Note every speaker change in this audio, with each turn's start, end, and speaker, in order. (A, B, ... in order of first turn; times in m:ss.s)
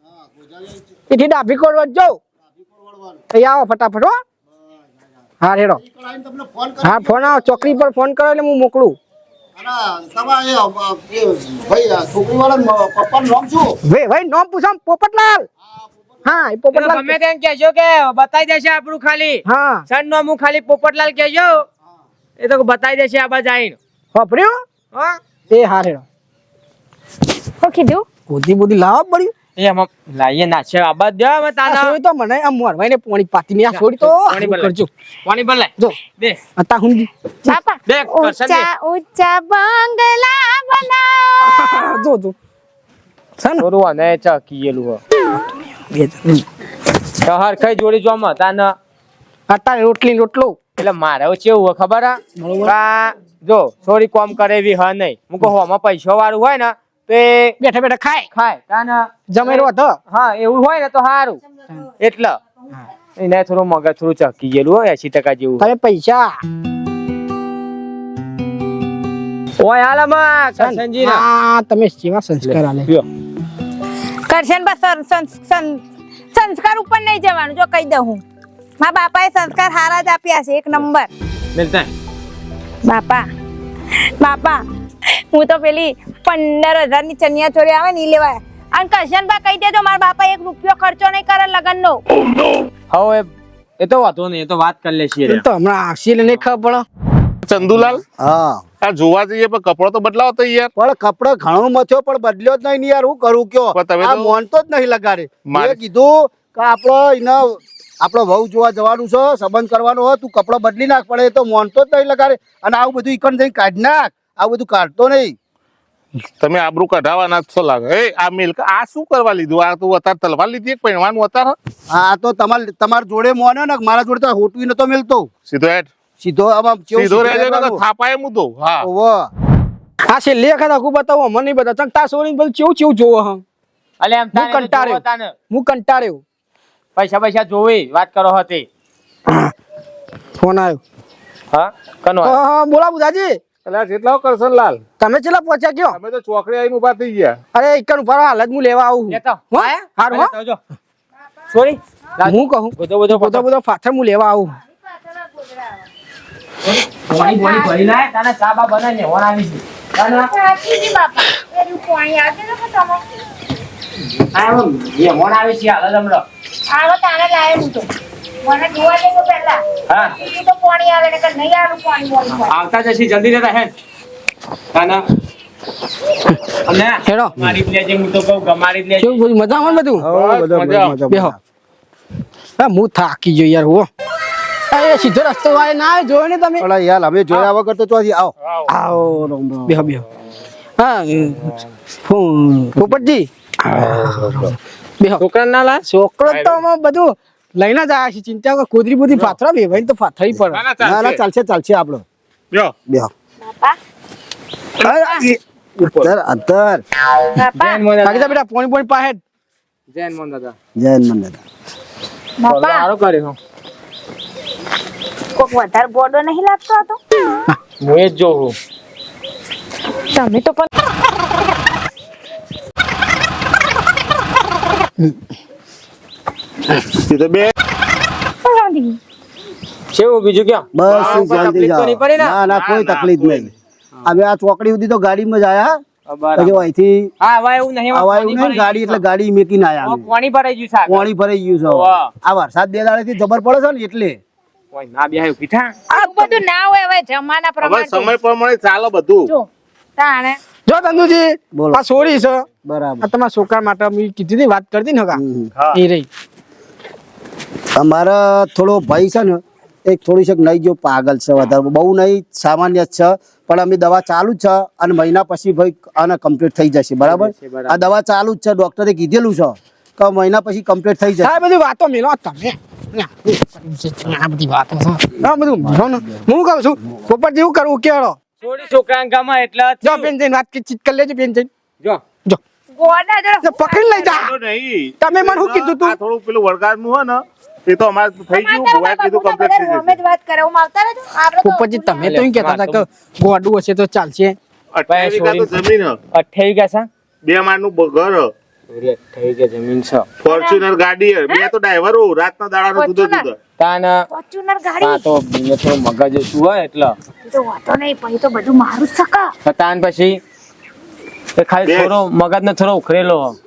0:00.1-0:00.9 A
0:01.1-0:02.2 B
0:02.4-0:03.2 A
0:03.3-0:04.2 B
0:05.4-0:05.8 B
0:05.7-0:07.8 A
0:06.8-0:09.0 B
0:09.6-0:13.7 A
0:13.8-0:15.5 B
0:16.2-0:17.2 B
0:16.7-0:21.6 C
0:19.5-0:19.8 B
0:22.4-0:23.8 C
0:24.1-0:24.6 B
0:24.9-0:25.2 C
0:25.5-0:26.0 B
0:27.6-0:28.0 D
0:28.3-0:29.3 B
0:29.6-0:32.0 C
0:31.6-0:34.9 B
0:33.7-0:36.4 C
0:36.6-0:37.1 B
0:37.5-0:42.0 D
0:37.9-0:38.7 C
0:41.4-0:42.3 B
0:43.4-0:43.6 B
0:43.6-0:45.0 C
0:45.4-0:46.4 B
0:47.2-0:48.7 C
0:49.5-0:50.7 B
0:50.8-0:57.6 C
0:52.4-0:52.7 B
0:57.6-0:58.3 B
0:58.3-1:01.4 C
0:59.3-1:00.0 B
1:02.0-1:02.4 C
1:03.2-1:05.7 C
1:05.6-1:06.3 B
1:09.6-1:11.2 C
1:10.6-1:12.9 B
1:12.4-1:13.0 C
1:14.2-1:15.8 D
1:16.3-1:18.2 D
1:18.8-1:21.1 D
1:21.5-1:21.9 C
1:22.8-1:23.3 D
1:24.0-1:32.0 D
1:32.9-1:35.4 C
1:35.2-1:36.8 B
1:37.4-1:38.0 E
1:38.1-1:38.6 A
1:38.8-1:40.7 E
1:40.8-1:55.4 A
1:43.7-1:44.3 E
1:45.5-1:45.8 E
1:56.4-2:01.6 E
2:01.9-2:05.3 A
2:05.5-2:05.9 E
2:06.2-2:07.8 A
2:06.9-2:08.9 E
2:08.8-2:09.3 A
2:10.1-2:13.4 B
2:14.0-2:15.3 C
2:14.3-2:16.2 B
2:17.0-2:18.6 C
2:19.3-2:19.5 B
2:20.4-2:20.8 B
2:21.5-2:22.4 C
2:22.2-2:23.4 B
2:23.6-2:24.8 E
2:25.0-2:26.0 B
2:25.9-2:27.4 E
2:27.5-2:30.3 B
2:29.1-2:30.6 C
2:31.5-2:33.4 C
2:32.2-2:34.6 B
2:34.8-2:35.8 D
2:36.6-2:40.3 C
2:37.1-2:37.8 D
2:40.2-2:43.0 D
2:44.3-2:46.2 C
2:46.7-2:47.9 D
2:48.4-2:52.5 D
2:49.9-2:50.1 C
2:52.5-2:53.7 C
2:54.7-2:55.0 C
2:56.6-2:59.2 C
2:57.0-2:57.5 B
2:59.0-3:00.1 B
3:00.0-3:01.4 A
3:00.1-3:01.0 E
3:01.1-3:01.3 B
3:02.6-3:03.9 B
3:04.7-3:06.6 B
3:06.6-3:09.9 A
3:08.4-3:08.7 E
3:09.7-3:10.0 B
3:10.8-3:15.2 B
3:14.1-3:14.3 A
3:15.2-3:15.8 C
3:15.9-3:20.6 B
3:16.3-3:16.6 E
3:20.3-3:22.0 A
3:20.5-3:21.2 E
3:22.9-3:23.1 A
3:23.4-3:23.8 D
3:24.8-3:26.8 A
3:27.3-3:27.8 D
3:27.6-3:28.4 C
3:28.0-3:29.2 B
3:29.9-3:30.5 C
3:30.8-3:31.4 A
3:32.4-3:32.9 D
3:32.5-3:33.4 C
3:35.3-3:37.0 D
3:37.8-3:38.5 C
3:40.1-3:40.7 D
3:46.8-3:47.5 E
3:48.4-3:49.0 D
3:49.9-3:52.4 C
3:50.7-3:53.5 A
3:50.8-3:51.6 E
3:52.4-3:53.5 E
3:54.0-3:55.8 A
3:56.1-3:56.6 C
3:56.4-3:57.1 A
3:57.2-3:59.0 C
3:57.9-4:00.1 A
3:59.8-4:01.1 C
4:00.8-4:04.2 A
4:01.6-4:02.1 C
4:04.7-4:05.7 C
4:05.9-4:08.1 D
4:06.0-4:06.3 B
4:07.6-4:09.3 E
4:09.3-4:10.4 D
4:10.7-4:12.4 B
4:11.5-4:11.9 A
4:12.6-4:13.1 A
4:13.0-4:15.2 B
4:15.1-4:15.5 A
4:15.7-4:16.1 B
4:17.8-4:31.4 A
4:27.0-4:27.8 C
4:31.2-4:38.2 B
4:35.6-4:36.2 A
4:38.4-4:40.1 C
4:39.8-4:41.5 B
4:42.7-4:44.3 D
4:43.4-4:44.3 B
4:44.1-4:50.0 E
4:45.0-4:46.0 B
4:48.3-4:52.2 D
4:51.4-4:54.4 B
4:52.0-4:52.8 C
4:54.7-4:56.0 E
4:54.9-4:55.5 C
4:56.1-4:56.9 C
4:57.2-4:58.3 E
4:58.7-5:00.1 C
5:00.2-5:03.4 E
5:00.3-5:00.6 D
5:02.7-5:03.3 D
5:03.6-5:04.0 C
5:04.1-5:05.0 D
5:04.8-5:07.0 C
5:07.2-5:09.3 D
5:09.4-5:10.2 C
5:11.4-5:13.4 C
5:11.6-5:11.9 E